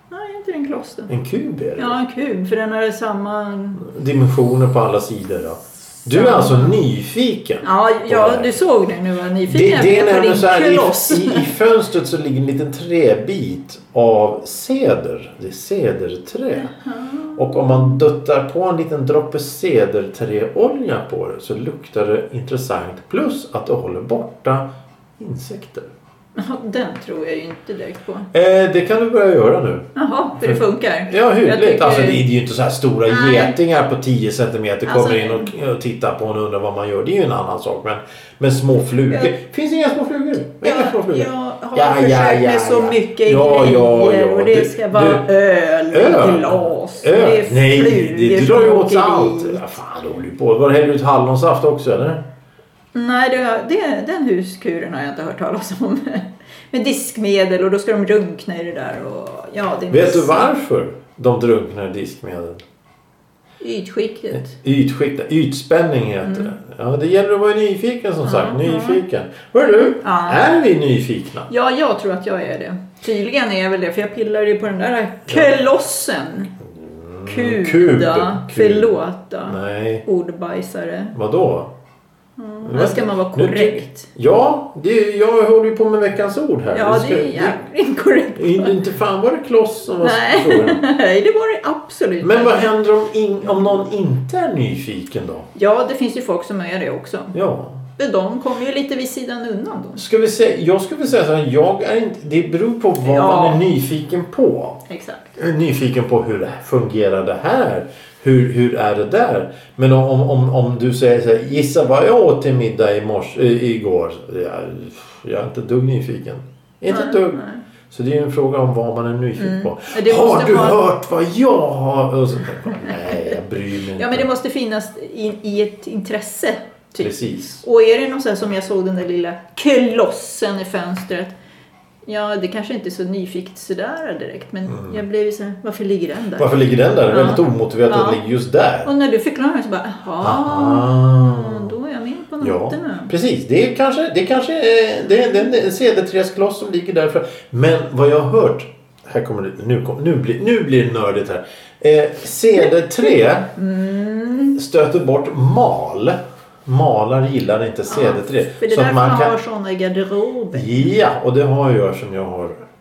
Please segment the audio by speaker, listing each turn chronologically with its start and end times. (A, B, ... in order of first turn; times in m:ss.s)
0:00.1-0:01.1 A
0:01.1-0:02.0 B
0:01.8-0:03.8 A
0:03.8-0:08.6 B
0:06.0-0:06.8 A
0:07.6-0:11.5 A
0:09.5-0:16.7 B
0:16.5-0:18.0 A
0:17.3-0:24.7 B
0:25.2-0:25.9 B
0:26.4-0:28.3 A
0:28.3-0:45.2 B
0:29.9-0:32.2 A
0:33.1-0:33.6 A
0:34.8-0:35.5 A
0:40.5-0:49.8 A
0:45.9-0:52.2 B
0:52.9-1:00.5 A
0:59.9-1:02.6 B
1:03.6-1:04.6 A
1:04.5-1:11.5 B
1:06.2-1:06.5 A
1:08.2-1:09.0 A
1:09.7-1:10.4 A
1:11.5-1:16.5 A
1:15.3-1:15.5 B
1:16.7-1:20.0 B
1:17.2-1:21.2 A
1:21.1-1:21.7 B
1:22.4-1:24.1 A
1:22.6-1:27.6 B
1:26.7-1:28.8 A
1:28.4-1:30.8 B
1:30.0-1:32.7 A
1:32.2-1:35.5 B
1:35.5-1:37.3 A
1:37.3-1:37.8 B
1:38.0-1:40.0 A
1:40.0-1:44.8 B
1:43.0-1:43.6 A
1:44.9-1:45.3 A
1:45.4-2:04.3 B
1:56.9-1:57.6 A
1:59.4-2:00.8 A
2:02.8-2:03.2 A
2:04.0-2:11.3 A
2:07.0-2:07.6 B
2:12.0-2:16.5 A
2:14.7-2:15.0 B
2:16.4-2:18.9 B
2:17.1-2:18.2 A
2:18.8-2:23.1 A
2:20.2-2:21.8 B
2:22.4-2:33.5 B
2:33.6-2:34.6 A
2:34.6-2:39.3 B
2:37.9-2:40.9 A
2:40.5-2:42.6 B